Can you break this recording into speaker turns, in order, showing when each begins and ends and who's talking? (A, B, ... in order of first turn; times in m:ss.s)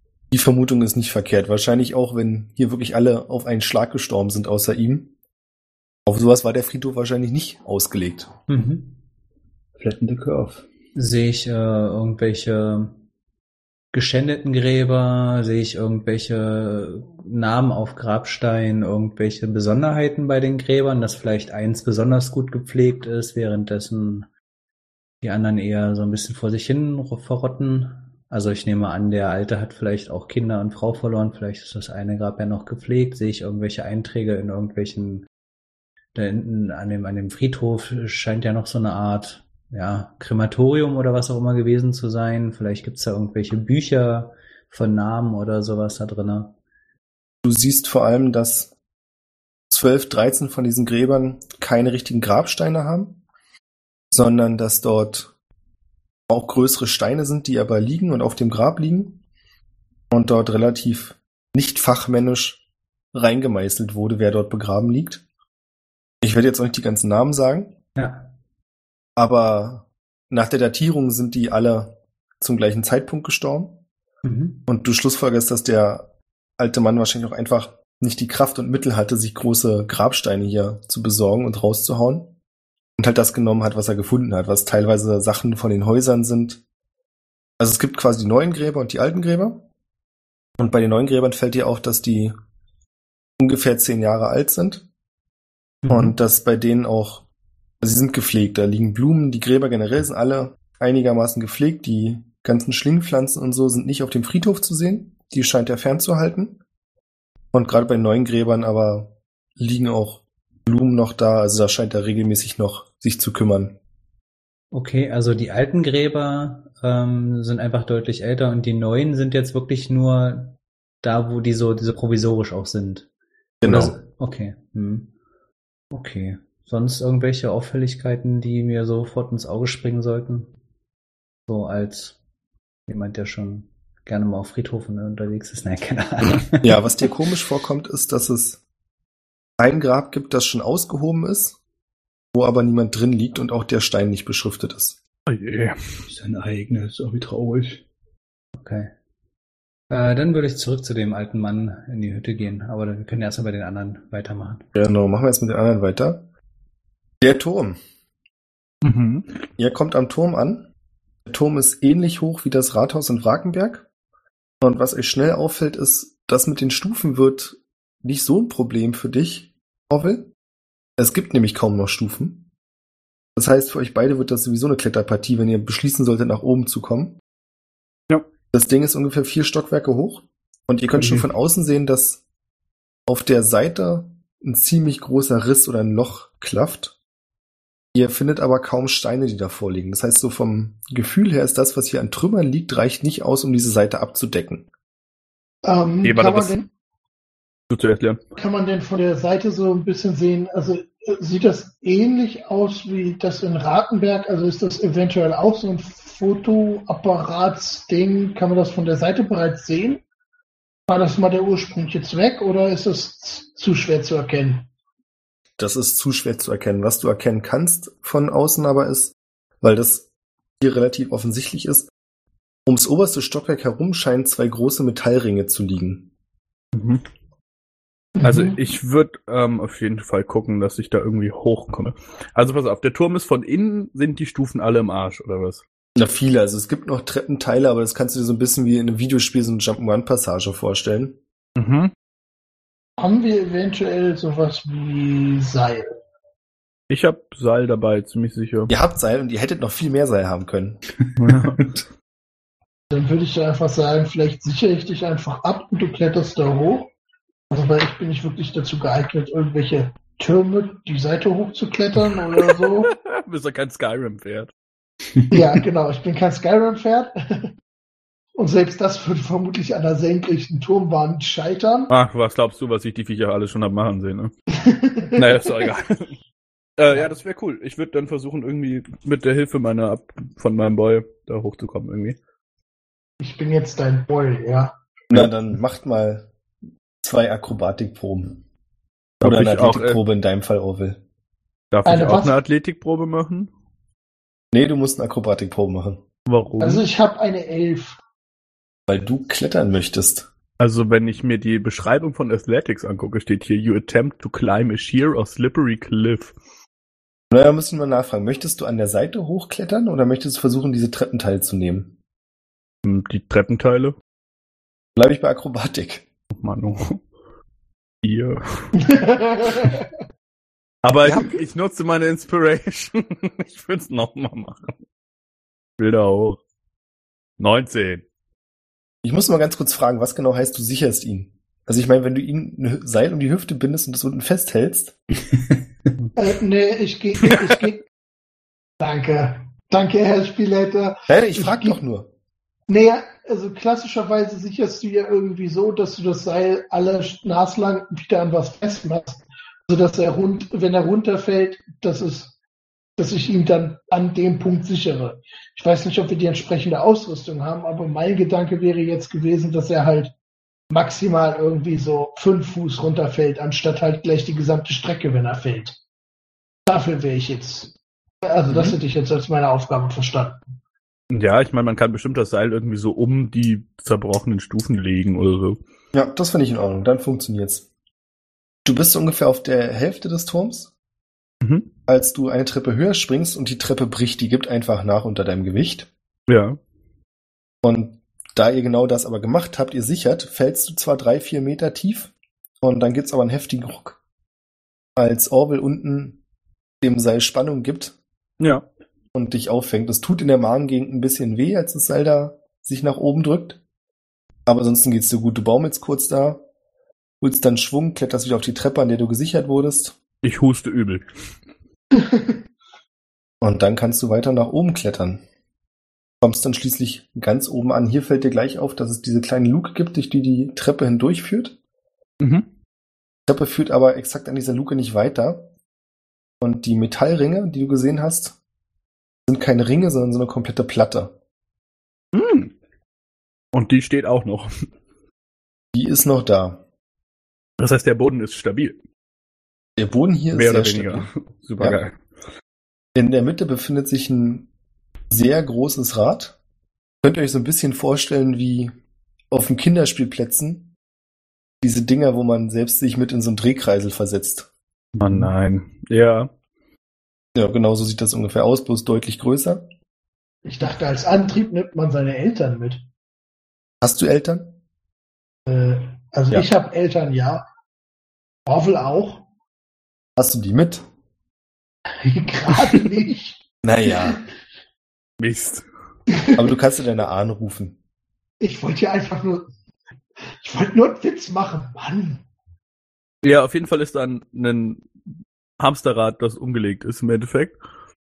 0:00.3-0:05.1 A
0:06.0-0:08.3 A
0:08.5-0:09.0 B
0:09.8-0:10.6 C
0:10.9-0:13.0 B
0:13.9-0:24.3 B
0:25.2-0:35.3 B
0:36.1-0:46.5 B
0:47.4-0:48.7 A
0:49.7-0:53.2 A
0:54.1-0:55.3 A
0:56.3-0:59.2 A
1:00.1-1:02.6 A
1:03.1-1:05.2 A
1:06.2-1:07.7 A
1:08.0-1:08.3 B
1:09.2-1:13.8 A
1:14.2-1:14.6 B
1:14.7-1:22.3 A
1:23.0-1:26.6 A
1:27.6-1:29.6 A
1:30.6-1:32.3 A
1:33.4-1:34.8 A
1:35.8-1:36.1 B
1:35.9-1:37.2 A
1:37.8-1:46.6 A
1:47.5-1:53.8 A
1:54.7-2:03.1 B
2:03.6-2:04.0 A
2:03.6-2:05.1 B
2:05.9-2:10.5 B
2:11.5-2:12.2 B
2:12.9-2:16.8 B
2:16.2-2:18.6 A
2:19.6-2:21.6 A
2:22.3-2:25.0 A
2:25.3-2:25.8 D
2:26.1-2:27.8 C
2:28.6-2:28.9 B
2:29.9-2:34.6 B
2:34.7-2:36.2 A
2:37.2-2:37.8 A
2:38.8-2:39.2 D
2:39.6-2:40.7 A
2:41.2-2:43.9 A
2:44.6-2:50.3 A
2:51.0-2:52.5 A
2:53.4-2:57.2 A
2:58.5-3:02.2 A
3:03.1-3:07.0 A
3:07.9-3:14.7 A
3:15.6-3:16.7 E
3:16.0-3:16.5 D
3:17.7-3:18.2 D
3:18.4-3:30.0 E
3:30.9-3:34.7 E
3:35.6-3:40.1 A
3:40.6-3:41.9 A
3:42.6-3:46.1 A
3:46.7-3:47.0 D
3:48.2-3:48.6 E
3:48.2-3:55.6 D
3:56.0-4:01.2 A
4:01.6-4:01.9 D
4:03.0-4:05.9 E
4:06.9-4:08.7 D
4:08.7-4:10.8 A
4:11.2-4:11.7 D
4:11.2-4:11.8 C
4:12.9-4:16.9 E
4:17.5-4:22.9 E
4:22.4-4:24.5 D
4:25.3-4:27.5 E
4:28.4-4:31.9 E
4:31.9-4:34.3 D
4:34.6-4:35.7 E
4:35.2-4:36.1 D
4:36.8-4:42.2 D
4:43.2-4:44.7 E
4:45.1-4:46.3 A
4:47.0-4:48.4 A
4:49.2-4:51.0 A
4:49.2-4:50.0 D
4:51.7-4:53.5 D
4:51.8-4:52.4 E
4:54.5-4:56.0 A
4:56.3-4:56.8 D
4:56.6-4:58.0 E
4:58.9-5:00.3 A
5:00.6-5:06.3 D
5:07.3-5:11.9 A
5:12.8-5:13.9 D
5:15.0-5:16.0 A
5:16.3-5:17.0 D
5:18.0-5:18.7 D
5:18.8-5:19.9 E
5:20.8-5:24.8 D
5:25.8-5:26.4 D
5:27.4-5:28.0 D
5:29.0-5:35.0 A
5:36.2-5:37.8 E
5:38.8-5:41.8 E
5:41.1-5:42.1 A
5:42.7-5:52.3 E
5:53.0-6:00.1 E
6:00.7-6:05.8 E
6:06.6-6:10.4 E
6:08.5-6:08.8 A
6:11.1-6:15.6 D
6:15.9-6:17.7 A
6:18.6-6:20.7 A
6:21.4-6:21.7 D
6:21.9-6:25.9 A
6:26.3-6:26.6 D
6:27.6-6:34.0 A
6:35.0-6:36.2 A
6:36.8-6:38.0 A
6:38.4-6:38.6 D
6:39.1-6:43.6 A
6:44.4-6:46.4 A
6:47.2-6:50.0 A
6:50.2-6:51.0 D
6:51.9-6:52.4 E
6:53.4-6:55.2 A
6:56.2-7:01.6 A
7:02.2-7:02.4 D
7:03.3-7:05.5 A
7:06.4-7:08.4 A
7:09.3-7:11.1 A
7:12.1-7:12.5 D
7:13.5-7:14.5 D
7:15.7-7:16.6 A
7:17.6-7:18.8 D
7:19.8-7:21.8 A
7:20.3-7:21.9 D
7:22.9-7:24.5 A
7:25.1-7:26.4 A
7:27.0-7:28.7 A
7:29.3-7:30.7 A
7:31.6-7:34.5 A
7:35.0-7:36.3 D
7:37.3-7:39.6 A
7:40.4-7:42.8 E
7:43.8-7:44.6 A
7:45.5-7:47.4 E
7:48.4-7:49.2 E
7:50.2-7:50.8 A
7:52.0-7:53.4 E
7:53.6-7:54.2 A
7:55.2-7:55.6 D
7:56.1-7:56.4 E
7:56.4-7:57.8 A
7:58.4-7:59.5 E
8:00.4-8:02.2 E
8:03.2-8:04.8 D
8:05.6-8:07.6 D